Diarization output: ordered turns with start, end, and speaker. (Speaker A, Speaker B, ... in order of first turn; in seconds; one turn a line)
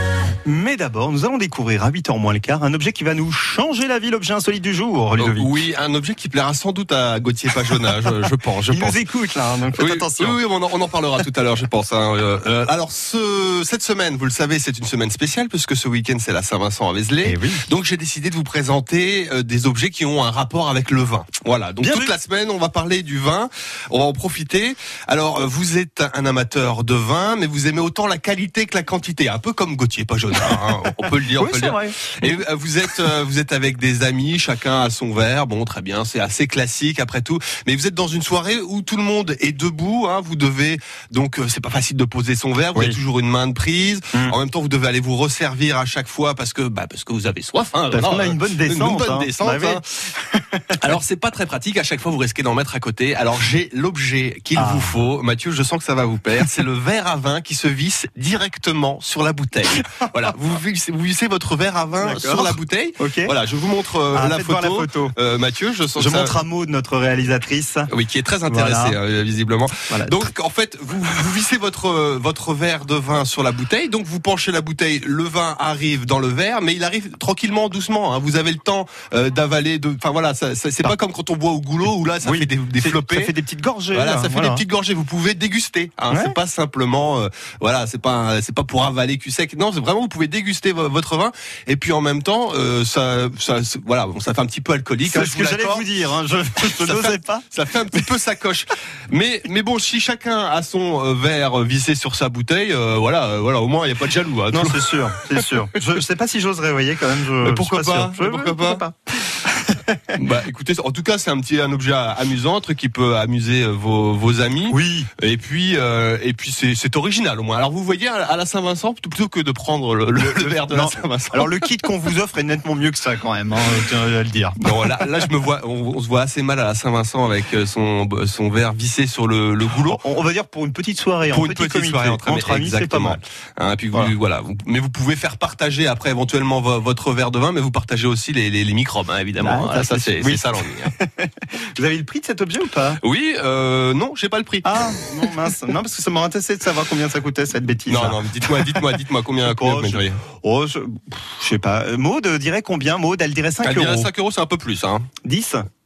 Speaker A: 0.4-5.6
Speaker B: 5.2-9.0
Speaker A: 8.7-10.4
Speaker B: 9.7-49.8
Speaker A: 17.2-17.6
Speaker A: 21.8-22.1
Speaker A: 30.5-32.3
Speaker A: 47.9-50.8
Speaker B: 50.7-66.3
Speaker A: 54.5-55.0
Speaker A: 62.0-63.3
Speaker A: 64.1-65.1
Speaker A: 66.0-67.9
Speaker B: 67.9-83.3
Speaker A: 68.5-69.0
Speaker A: 69.9-70.3
Speaker A: 82.2-84.6
Speaker B: 83.9-95.9
Speaker A: 86.1-86.4
Speaker A: 95.0-98.0
Speaker B: 96.6-105.5
Speaker A: 104.5-110.2
Speaker B: 107.4-108.8
Speaker B: 110.1-121.7
Speaker A: 114.7-115.1
Speaker A: 120.2-125.1
Speaker B: 124.6-130.0
Speaker A: 129.8-133.2
Speaker B: 131.3-140.9
Speaker A: 139.4-143.0
Speaker B: 143.0-145.3
Speaker A: 144.6-154.1
Speaker B: 147.9-150.2
Speaker B: 153.6-155.1
Speaker A: 155.2-155.6